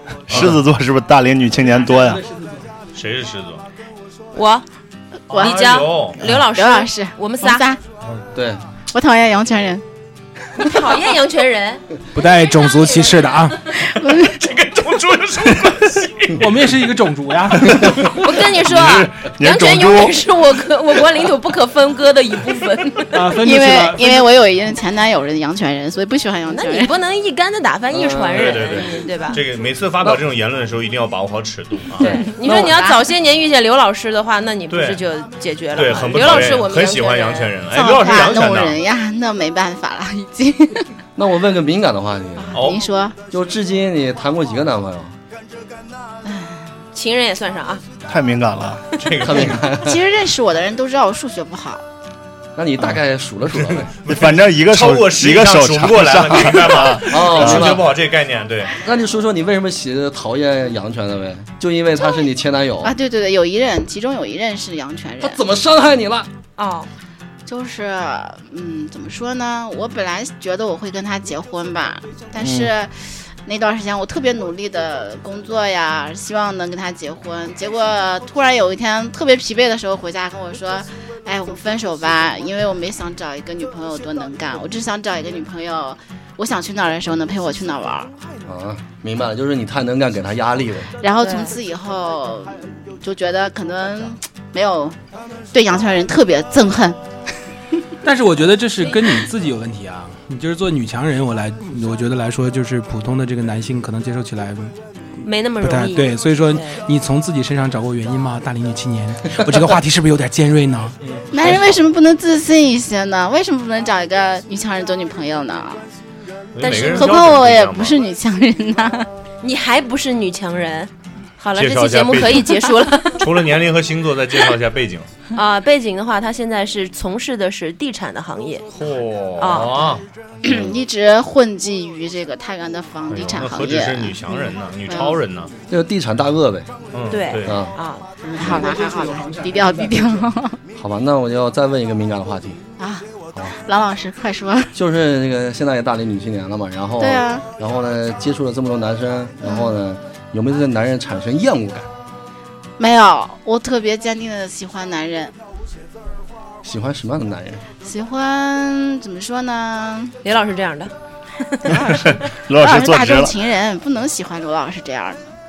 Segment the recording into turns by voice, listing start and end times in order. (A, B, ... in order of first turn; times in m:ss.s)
0:00.3-0:02.2 A
0:01.6-0:02.7 B
0:03.0-0:03.6 C
0:04.3-0:04.6 D
0:05.3-0:06.2 C
0:05.3-0:07.8 E
0:05.4-0:07.6 D
0:08.3-0:08.6 F
0:08.9-0:09.8 E
0:10.6-0:11.8 D
0:12.1-0:13.6 B
0:12.6-0:13.4 D
0:13.8-0:14.4 E
0:14.0-0:16.4 C
0:16.4-0:18.1 B
0:18.0-0:23.2 D
0:18.5-0:20.2 A
0:23.1-0:24.3 B
0:23.4-0:26.9 E
0:26.5-0:29.4 D
0:27.9-0:28.8 F
0:28.3-0:32.2 C
0:32.0-0:32.8 F
0:32.0-0:33.0 E
0:32.0-0:37.5 D
0:34.7-0:35.0 C
0:35.8-0:38.8 C
0:37.7-0:40.9 E
0:41.2-0:42.6 F
0:42.4-0:43.2 E
0:42.5-0:42.8 C
0:43.3-0:45.2 F
0:46.2-0:46.6 E
0:46.9-0:47.8 D
0:48.1-0:48.9 A
0:49.0-0:49.7 C
0:49.2-0:50.0 F
0:49.8-0:51.8 E
0:52.6-0:53.9 F
0:53.7-0:58.7 C
0:54.1-0:57.8 A
0:57.0-0:57.9 F
0:58.8-1:03.0 F
1:02.8-1:05.4 E
1:05.2-1:06.3 F
1:06.6-1:06.9 D
1:07.5-1:12.9 E
1:12.4-1:12.7 F
1:13.4-1:28.1 E
1:28.4-1:30.9 F
1:31.0-1:35.0 E
1:31.2-1:31.5 D
1:35.5-1:37.0 E
1:38.0-1:44.8 B
1:45.2-1:46.8 D
1:45.6-1:51.0 B
1:51.0-1:51.7 C
1:51.3-1:55.8 E
1:56.6-1:58.0 C
1:56.6-1:57.1 D
1:56.8-1:59.1 E
1:59.4-2:03.3 D
2:01.6-2:02.5 C
2:03.2-2:05.1 C
2:05.3-2:08.6 D
2:08.7-2:10.0 C
2:09.4-2:09.9 D
2:10.4-2:15.2 E
2:13.1-2:15.5 C
2:15.7-2:16.7 F
2:16.9-2:17.6 C
2:17.1-2:18.1 D
2:17.4-2:17.8 F
2:18.3-2:20.6 E
2:18.4-2:18.8 F
2:20.8-2:22.6 F
2:22.8-2:24.7 E
2:24.8-2:31.9 F
2:27.0-2:27.4 E
2:29.4-2:29.8 E
2:32.8-2:35.4 E
2:36.6-2:37.6 F
2:37.8-2:40.1 E
2:40.2-2:42.0 D
2:41.7-2:45.2 E
2:41.8-2:43.3 A